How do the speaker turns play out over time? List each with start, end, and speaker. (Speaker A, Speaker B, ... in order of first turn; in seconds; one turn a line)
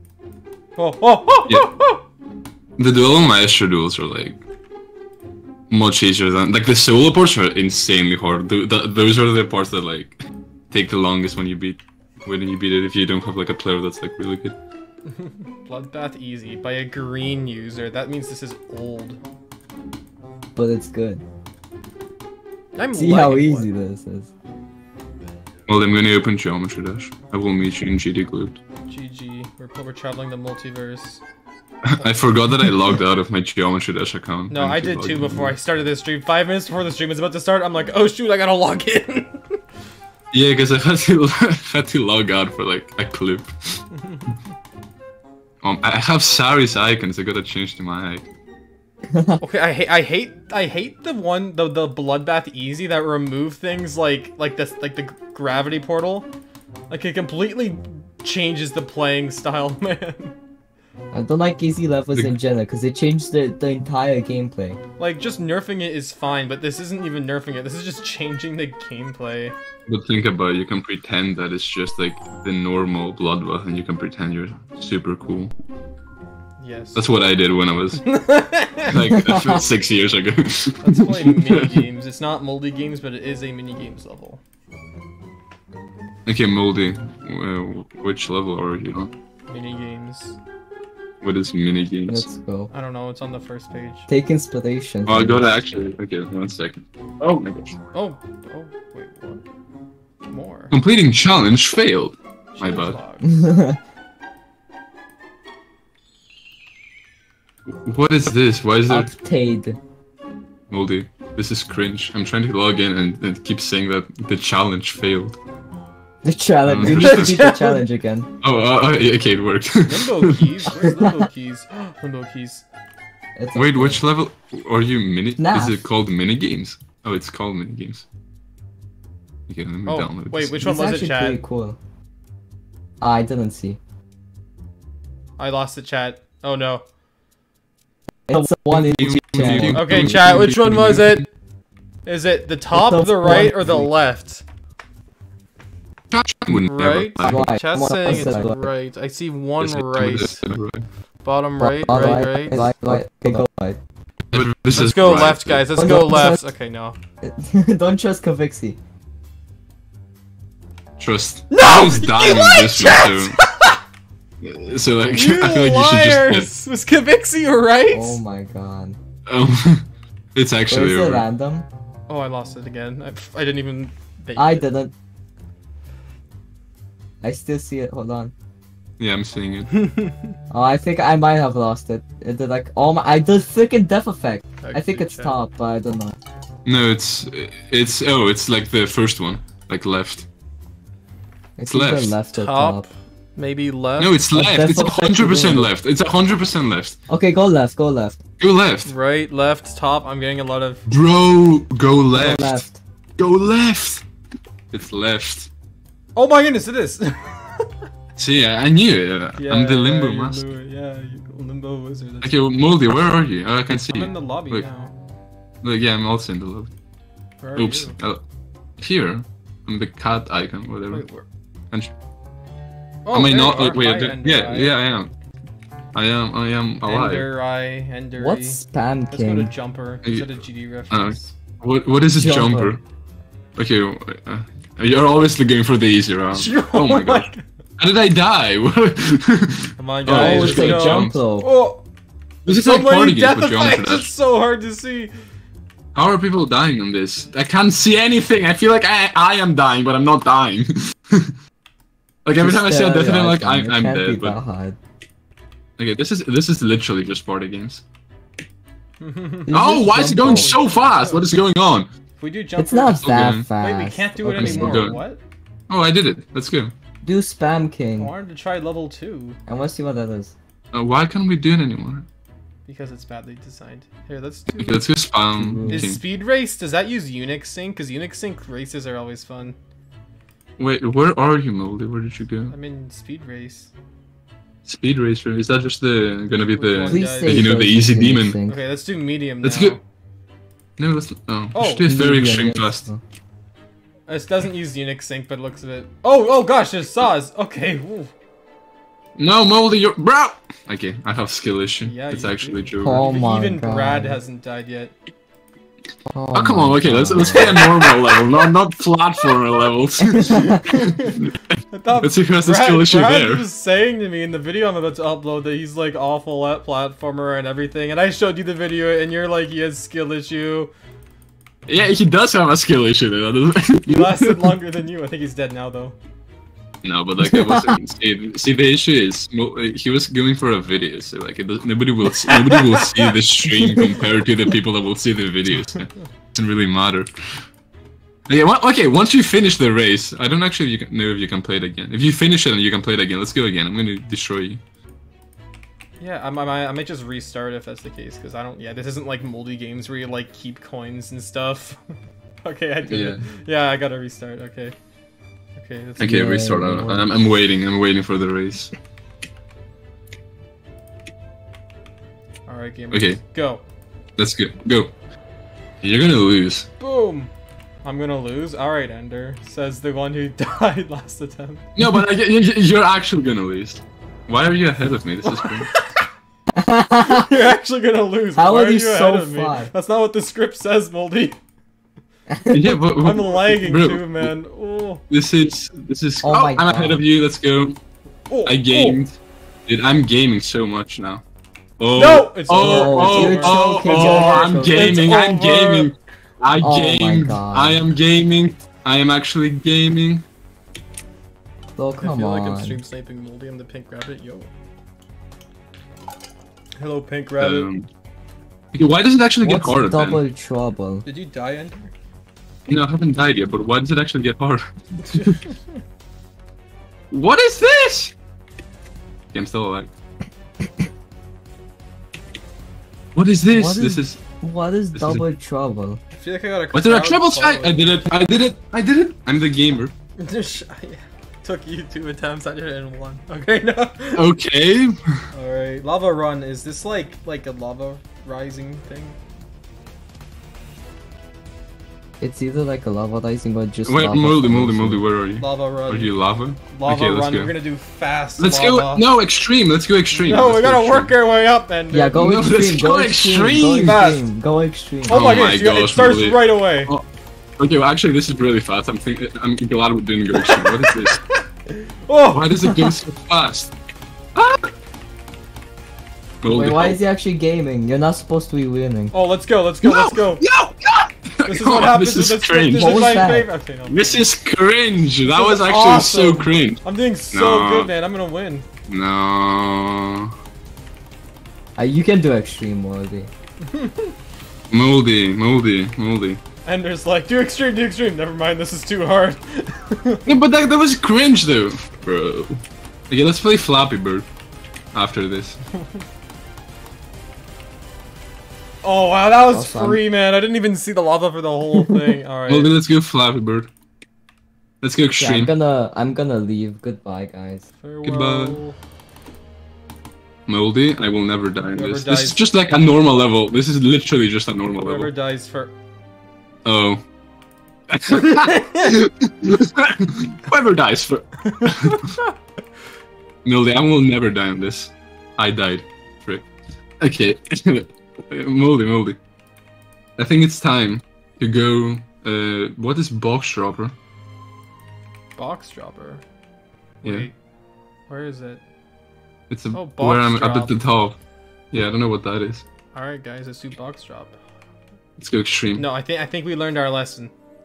Speaker A: 0.8-2.0
Speaker B: 2.8-4.4
Speaker B: 5.7-10.2
Speaker B: 10.7-14.6
Speaker A: 15.1-19.2
Speaker C: 20.6-21.2
Speaker A: 22.8-23.7
Speaker C: 23.0-24.3
Speaker B: 25.7-28.6
Speaker A: 28.9-31.2
Speaker B: 31.8-35.6
Speaker A: 34.5-39.6
Speaker B: 40.3-43.9
Speaker B: 45.6-48.3
Speaker C: 49.1-49.4
Speaker A: 49.4-56.3
Speaker A: 56.9-60.4
Speaker C: 61.1-64.8
Speaker A: 65.0-69.6
Speaker B: 69.9-75.5
Speaker A: 76.6-77.1
Speaker B: 77.0-78.1
Speaker A: 78.0-79.0
Speaker B: 78.9-81.8
Speaker C: 79.0-79.7
Speaker A: 80.8-84.4
Speaker B: 86.3-89.1
Speaker A: 89.5-90.4
Speaker B: 91.2-92.3
Speaker C: 92.1-92.7
Speaker A: 92.7-94.1
Speaker C: 94.1-95.5
Speaker B: 95.1-97.8
Speaker A: 97.9-99.5
Speaker A: 100.3-100.7
Speaker B: 100.7-103.0
Speaker A: 102.5-103.3
Speaker C: 103.2-103.8
Speaker B: 107.8-109.1
Speaker C: 108.9-109.8
Speaker B: 110.7-115.4
Speaker C: 116.2-118.3
Speaker B: 116.7-117.3
Speaker A: 116.8-117.8
Speaker B: 118.4-120.5
Speaker A: 119.9-122.7
Speaker C: 120.8-121.3
Speaker C: 123.4-124.0
Speaker B: 123.5-128.1
Speaker C: 125.4-125.8
Speaker B: 129.5-130.6
Speaker A: 129.9-131.4
Speaker C: 130.6-131.8
Speaker C: 133.0-133.8
Speaker A: 135.4-136.9
Speaker C: 138.3-140.1
Speaker B: 138.7-141.2
Speaker A: 139.7-141.3
Speaker A: 142.1-144.4
Speaker C: 142.7-143.7
Speaker B: 146.1-147.4
Speaker A: 146.5-150.4
Speaker C: 147.2-148.7
Speaker B: 149.6-150.9
Speaker A: 151.2-152.7
Speaker C: 151.6-153.8
Speaker B: 154.3-155.7
Speaker A: 154.7-157.0
Speaker C: 155.8-156.4
Speaker C: 157.2-158.8
Speaker B: 161.0-163.4
Speaker A: 161.5-163.8
Speaker B: 164.4-166.5
Speaker A: 165.1-168.2
Speaker C: 167.9-169.0
Speaker B: 169.3-171.2
Speaker C: 170.7-171.7
Speaker A: 172.1-174.7
Speaker C: 174.4-174.9
Speaker C: 177.2-178.3
Speaker B: 179.0-179.8
Speaker A: 179.7-180.3
Speaker C: 180.5-186.2
Speaker A: 184.6-185.4
Speaker B: 186.7-190.3
Speaker C: 191.6-192.8
Speaker B: 191.7-192.1
Speaker A: 192.3-194.2
Speaker B: 194.0-197.0
Speaker C: 194.3-195.7
Speaker C: 197.1-198.2
Speaker B: 198.4-198.9
Speaker A: 198.9-200.8
Speaker B: 200.9-202.7
Speaker C: 202.1-202.8
Speaker B: 203.2-204.0
Speaker B: 204.7-205.5
Speaker A: 206.2-207.7
Speaker B: 208.2-210.4
Speaker A: 209.4-212.4
Speaker B: 212.2-214.7
Speaker A: 213.7-214.9
Speaker B: 215.6-216.7
Speaker A: 217.4-218.0
Speaker B: 217.6-218.2
Speaker B: 218.8-221.1
Speaker A: 220.9-221.3
Speaker A: 223.1-224.7
Speaker B: 223.1-225.1
Speaker B: 225.9-227.3
Speaker A: 226.8-231.3
Speaker C: 228.2-229.5
Speaker B: 230.0-230.4
Speaker B: 230.9-232.8
Speaker C: 232.2-232.7
Speaker B: 233.6-241.2
Speaker A: 236.3-237.4
Speaker A: 239.8-241.8
Speaker C: 240.1-241.5
Speaker B: 242.5-244.1
Speaker A: 242.5-245.1
Speaker B: 245.9-251.4
Speaker B: 252.2-254.4
Speaker C: 252.4-254.8
Speaker B: 255.8-257.8
Speaker A: 259.0-261.2
Speaker C: 259.5-260.6
Speaker B: 259.5-261.9
Speaker A: 262.2-265.2
Speaker C: 262.6-264.9
Speaker B: 263.0-263.5
Speaker B: 264.3-265.1
Speaker B: 265.7-266.7
Speaker C: 267.0-268.1
Speaker A: 268.0-269.4
Speaker C: 269.5-270.4
Speaker B: 270.7-272.1
Speaker A: 272.7-274.9
Speaker B: 274.6-276.0
Speaker C: 275.4-275.9
Speaker A: 275.7-279.6
Speaker B: 280.6-282.6
Speaker A: 282.5-283.7
Speaker B: 284.7-288.4
Speaker A: 286.5-287.6
Speaker C: 286.9-288.6
Speaker A: 288.5-289.8
Speaker B: 289.4-289.8
Speaker B: 290.8-292.9
Speaker A: 291.5-291.9
Speaker C: 291.8-293.0
Speaker A: 294.1-298.1
Speaker B: 299.2-303.1
Speaker A: 301.8-304.9
Speaker C: 302.8-304.2
Speaker C: 306.1-307.7
Speaker B: 306.3-313.5
Speaker C: 310.1-310.6
Speaker A: 310.2-320.7
Speaker B: 321.7-324.6
Speaker A: 323.9-326.0
Speaker B: 326.8-337.1
Speaker C: 327.4-327.8
Speaker A: 332.3-334.0
Speaker B: 338.3-344.6
Speaker A: 346.0-351.8
Speaker A: 352.4-354.8
Speaker B: 352.9-353.2
Speaker A: 355.6-356.4
Speaker B: 356.0-358.7
Speaker C: 356.0-357.1
Speaker A: 362.5-363.6
Speaker B: 362.9-363.2
Speaker B: 364.2-364.9
Speaker B: 365.8-366.7
Speaker A: 366.8-367.3
Speaker A: 367.8-371.7
Speaker B: 371.8-375.7
Speaker A: 375.2-376.1
Speaker C: 376.5-377.4
Speaker A: 377.0-381.4
Speaker C: 378.4-379.7
Speaker C: 382.3-382.8
Speaker B: 382.5-384.3
Speaker A: 383.0-385.1
Speaker B: 385.1-387.8
Speaker C: 386.2-387.0
Speaker A: 388.3-389.0
Speaker B: 388.5-391.2
Speaker B: 391.8-400.2
Speaker A: 392.0-395.9
Speaker C: 392.5-394.9
Speaker C: 396.6-397.8
Speaker C: 401.8-402.8
Speaker A: 402.0-404.5
Speaker A: 406.8-407.7
Speaker B: 407.4-407.9
Speaker B: 408.7-410.2
Speaker C: 409.4-411.0
Speaker A: 411.1-411.9
Speaker B: 412.7-415.4
Speaker A: 415.1-415.6
Speaker B: 417.1-418.1
Speaker B: 419.3-419.9
Speaker B: 423.1-424.2
Speaker C: 423.5-426.0
Speaker B: 424.9-425.2
Speaker A: 426.1-428.1
Speaker B: 426.7-429.9
Speaker A: 430.2-434.2
Speaker B: 434.2-435.3
Speaker A: 435.3-439.2
Speaker C: 442.2-445.0
Speaker B: 443.9-447.5
Speaker A: 445.4-446.1
Speaker A: 446.7-449.1
Speaker B: 448.4-451.1
Speaker A: 450.1-452.2
Speaker C: 451.9-455.2
Speaker B: 452.1-454.1
Speaker A: 453.8-454.3
Speaker A: 455.1-456.9
Speaker B: 455.1-457.0
Speaker B: 457.6-461.2
Speaker A: 460.4-462.9
Speaker B: 462.3-463.7
Speaker B: 464.4-464.7
Speaker B: 466.4-467.0
Speaker C: 466.5-469.1
Speaker A: 469.1-470.4
Speaker B: 469.8-473.2
Speaker A: 471.4-474.2
Speaker C: 472.8-473.5
Speaker B: 473.9-477.9
Speaker A: 475.2-478.7
Speaker B: 478.9-480.3
Speaker C: 481.8-483.3
Speaker A: 483.6-484.1
Speaker B: 484.7-486.4
Speaker A: 486.6-490.3
Speaker B: 490.3-494.3
Speaker B: 494.9-495.6
Speaker A: 498.8-502.8
Speaker C: 499.5-500.0
Speaker B: 502.5-503.7
Speaker B: 504.8-505.5
Speaker C: 505.2-507.6
Speaker A: 507.8-508.8
Speaker B: 508.0-508.6
Speaker B: 510.5-515.1
Speaker A: 511.8-512.5
Speaker A: 514.8-515.8
Speaker B: 516.6-517.0
Speaker B: 517.9-522.2
Speaker A: 518.2-518.9
Speaker A: 521.5-522.3
Speaker B: 523.5-526.5
Speaker B: 527.0-529.2
Speaker B: 530.2-534.0
Speaker A: 535.4-536.2
Speaker B: 537.0-537.3
Speaker A: 537.0-537.3
Speaker A: 538.1-538.6
Speaker B: 539.5-541.2
Speaker A: 539.7-540.8
Speaker B: 541.7-542.6
Speaker A: 542.9-544.4
Speaker B: 545.2-545.9
Speaker A: 545.8-547.3